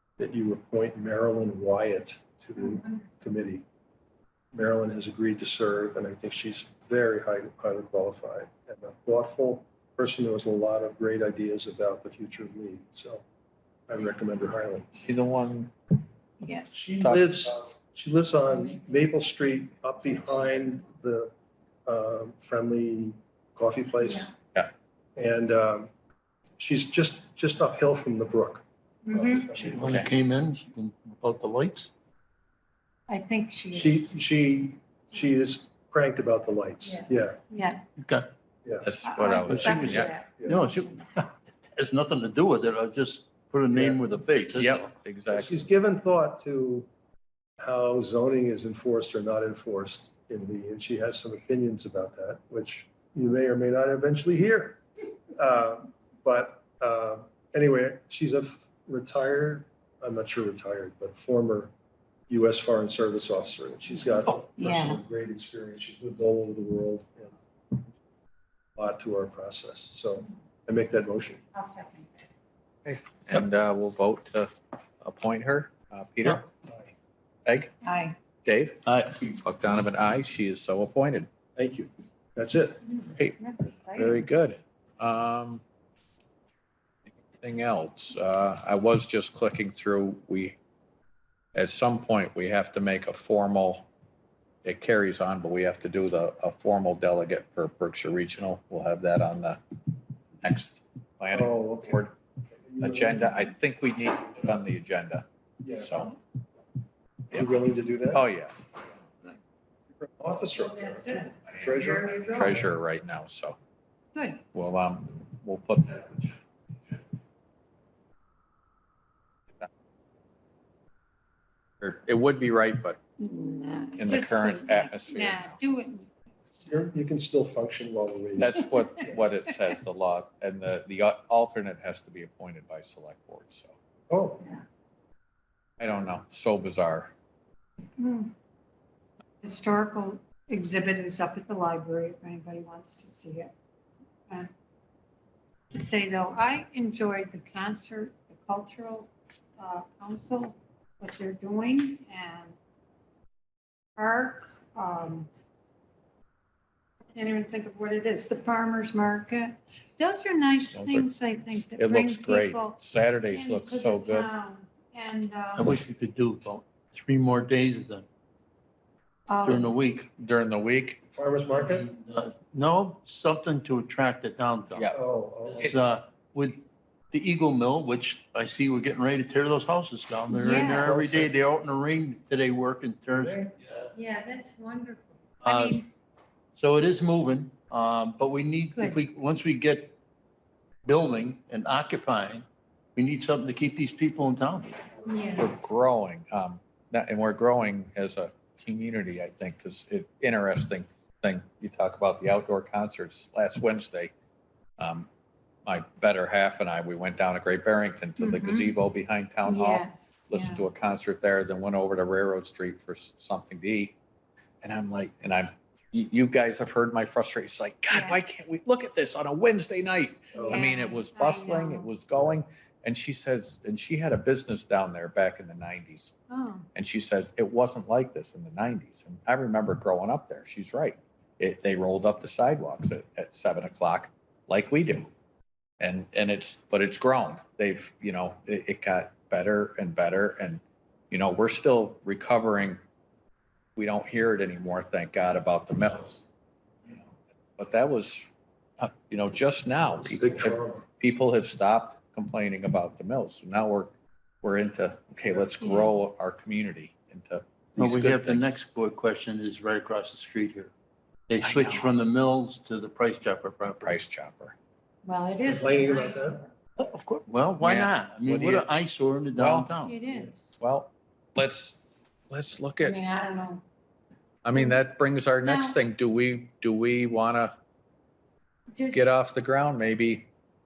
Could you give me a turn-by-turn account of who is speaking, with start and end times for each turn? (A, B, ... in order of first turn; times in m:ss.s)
0:00.2-0:03.6 A
0:04.5-0:13.2 A
0:13.9-0:14.9 A
0:14.9-0:15.7 B
0:16.4-0:16.9 C
0:16.8-0:17.1 D
0:16.9-0:17.3 B
0:17.0-0:21.3 A
0:21.8-0:24.3 A
0:25.2-0:25.9 A
0:26.6-0:30.2 A
0:29.0-0:29.5 C
0:29.6-0:31.9 D
0:29.8-0:30.1 B
0:33.1-0:34.2 C
0:33.7-0:37.4 A
0:36.8-0:37.8 C
0:38.0-0:38.3 D
0:38.6-0:38.9 A
0:38.8-0:40.1 B
0:39.0-0:40.6 C
0:39.5-0:44.9 D
0:39.6-0:40.6 A
0:43.7-0:44.0 A
0:44.5-0:45.6 B
0:45.3-0:46.9 A
0:47.6-0:54.8 A
0:55.4-1:01.7 A
1:02.3-1:07.4 A
1:04.6-1:05.0 C
1:08.8-1:11.4 A
1:11.5-1:12.2 C
1:12.8-1:16.5 B
1:16.6-1:16.9 A
1:17.4-1:17.7 B
1:17.8-1:18.2 C
1:18.4-1:21.3 B
1:18.9-1:19.2 D
1:21.6-1:22.8 A
1:22.9-1:24.2 C
1:23.9-1:25.6 B
1:27.3-1:30.6 B
1:31.5-1:33.9 B
1:34.6-1:39.6 B
1:40.4-1:42.2 B
1:41.3-1:43.5 A
1:42.8-1:45.2 B
1:45.6-1:46.2 A
1:45.8-1:46.1 B
1:47.3-1:48.2 A
1:48.1-1:48.6 B
1:50.0-1:52.7 A
1:50.5-1:52.6 C
1:51.5-1:53.6 B
1:54.1-1:54.4 C
1:54.5-1:56.4 B
2:01.8-2:03.0 B
2:03.2-2:06.8 C
2:04.0-2:05.6 B
2:06.6-2:09.2 A
2:08.4-2:13.7 B
2:14.1-2:14.6 A
2:15.8-2:17.1 B
2:18.0-2:18.3 C
2:19.4-2:23.5 C
2:25.7-2:32.6 C
2:33.9-2:35.3 C
2:37.1-2:45.8 C
2:40.7-2:41.1 B
2:41.8-2:44.3 B
2:45.6-2:48.0 D
2:49.3-2:49.7 C
2:49.4-2:50.1 D
2:50.2-2:51.0 B
2:51.1-2:51.9 A
2:51.6-2:54.9 D
2:54.9-2:55.7 A
2:55.5-3:03.4 D
3:00.3-3:00.9 C
3:00.6-3:01.3 A
3:03.1-3:03.5 A
3:03.9-3:05.8 C
3:05.4-3:05.9 D
3:06.5-3:10.0 D
3:10.8-3:12.4 D
3:13.0-3:14.8 D
3:15.1-3:15.5 C
3:15.4-3:24.1 B
3:24.8-3:25.1 B
3:25.6-3:34.0 B
3:28.2-3:28.7 C
3:29.4-3:30.6 C
3:34.6-3:46.1 B
3:37.9-3:38.2 C
3:40.3-3:40.7 A
3:40.4-3:41.9 C
3:46.3-3:46.7 C
3:46.7-3:55.1 B
3:55.8-4:02.8 B
4:03.8-4:06.2 B
4:06.9-4:08.3 B
4:08.8-4:18.5 B
4:10.0-4:10.8 A
4:15.6-4:16.0 C
4:17.8-4:20.7 D
4:21.3-4:24.0 D
4:21.4-4:21.9 B
4:23.8-4:24.5 B
4:25.0-4:26.5 C
4:25.4-4:26.4 A
4:26.8-4:30.0 D
4:27.6-4:28.7 B
4:29.4-4:29.7 B
4:29.8-4:30.6 C
4:30.6-4:31.8 B
4:32.3-4:33.0 B
4:32.8-4:33.6 C
4:34.4-4:37.5 B
4:35.4-4:35.8 C
4:38.7-4:39.0 C
4:38.9-4:40.3 B